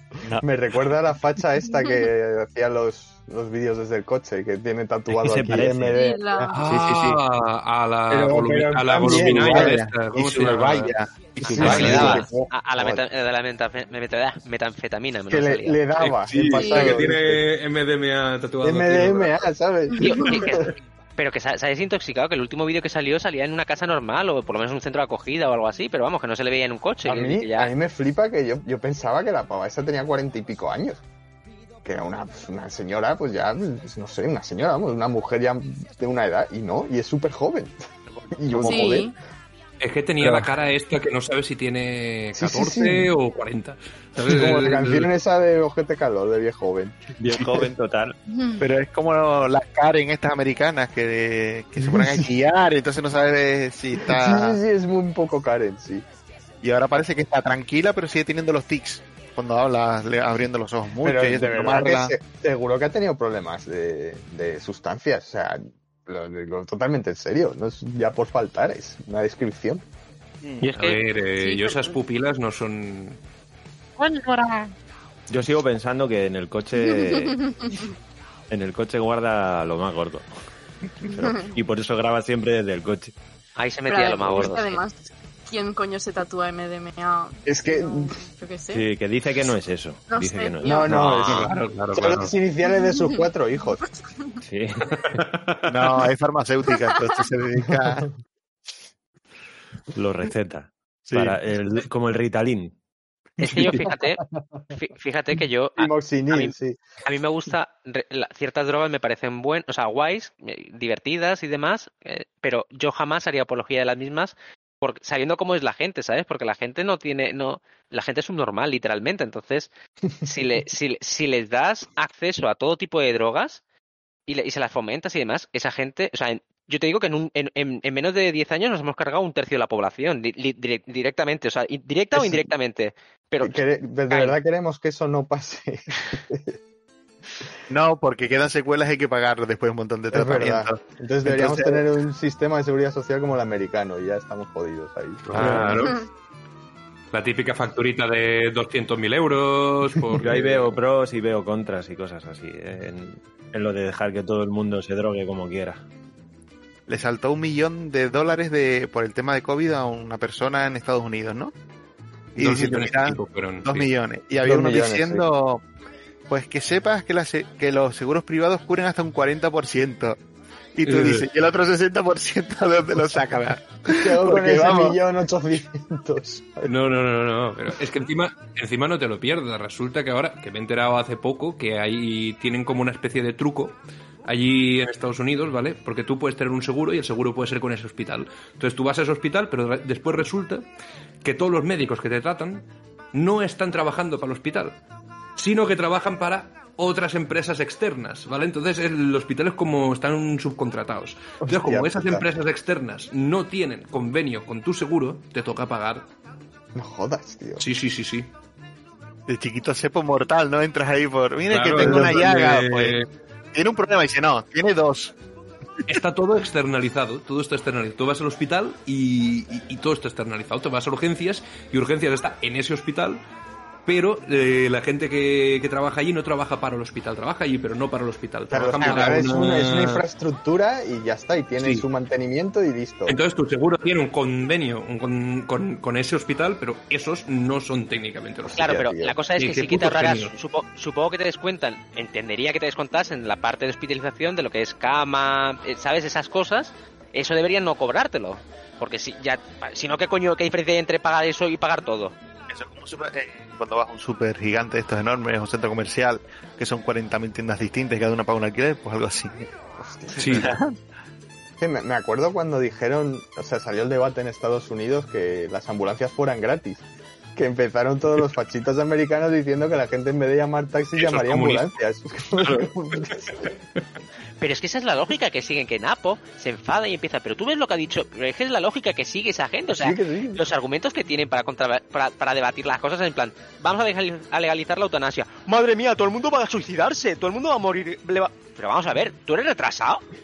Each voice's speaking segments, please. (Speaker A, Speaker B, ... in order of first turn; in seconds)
Speaker A: 0.4-6.5, 8.1-9.8, 11.4-13.0, 15.3-17.4, 18.6-20.7, 27.0-31.0, 31.8-37.8, 38.3-39.1, 40.2-40.5, 42.4-43.1, 44.2-47.6, 51.8-52.3, 54.0-56.0, 61.0-69.8, 87.5-88.2, 90.6-93.8, 103.4-104.6, 105.8-106.8, 132.1-132.5, 133.4-136.5, 140.1-145.9, 164.4-165.2, 174.0-176.7, 201.5-202.2, 206.7-207.6, 211.8-212.1, 228.5-233.2, 238.5-239.2, 259.8-260.5, 261.6-266.8, 267.4-273.5, 279.7-280.4
Speaker B: 5.1-6.0, 6.6-7.2, 11.4-12.2, 47.2-48.1, 75.3-77.5, 78.5-80.2, 81.0-83.1, 88.7-91.4, 94.4-95.2, 99.9-102.7, 145.3-145.9, 150.2-155.8
Speaker C: 5.9-6.5, 16.5-17.0, 20.0-20.3, 38.6-39.1, 48.3-48.6, 71.4-71.9, 77.0-77.9, 81.1-81.5, 83.9-88.9, 90.1-91.0
Speaker D: 6.5-10.9, 11.6-12.2, 16.0-19.4, 39.8-45.1, 70.8-73.2, 91.2-92.3, 95.0-95.6, 145.2-145.9, 147.1-150.8, 162.4-163.9, 170.8-171.2, 176.7-190.7, 191.2-194.8, 195.4-206.1, 207.6-208.3, 211.5-213.1, 215.9-223.2, 223.8-230.0, 231.6-231.8, 233.1-238.6, 239.4-240.3, 260.2-260.5, 270.9-271.8, 272.4-273.3
Speaker E: 9.0-12.3, 48.6-54.6, 56.6-62.1, 74.2-74.6, 95.7-98.1, 101.1-101.4, 137.7-141.8, 156.9-161.5, 162.3-165.6, 166.3-170.2, 170.8-175.0, 209.3-213.0, 213.5-215.1, 228.8-229.3, 252.5-259.3, 260.2-260.8
Speaker F: 11.6-15.8, 20.0-27.7, 70.6-71.0, 83.6-84.8, 90.8-91.5, 103.4-104.2, 104.7-119.7, 120.2-123.6, 124.3-134.3, 238.5-252.1, 274.4-290.0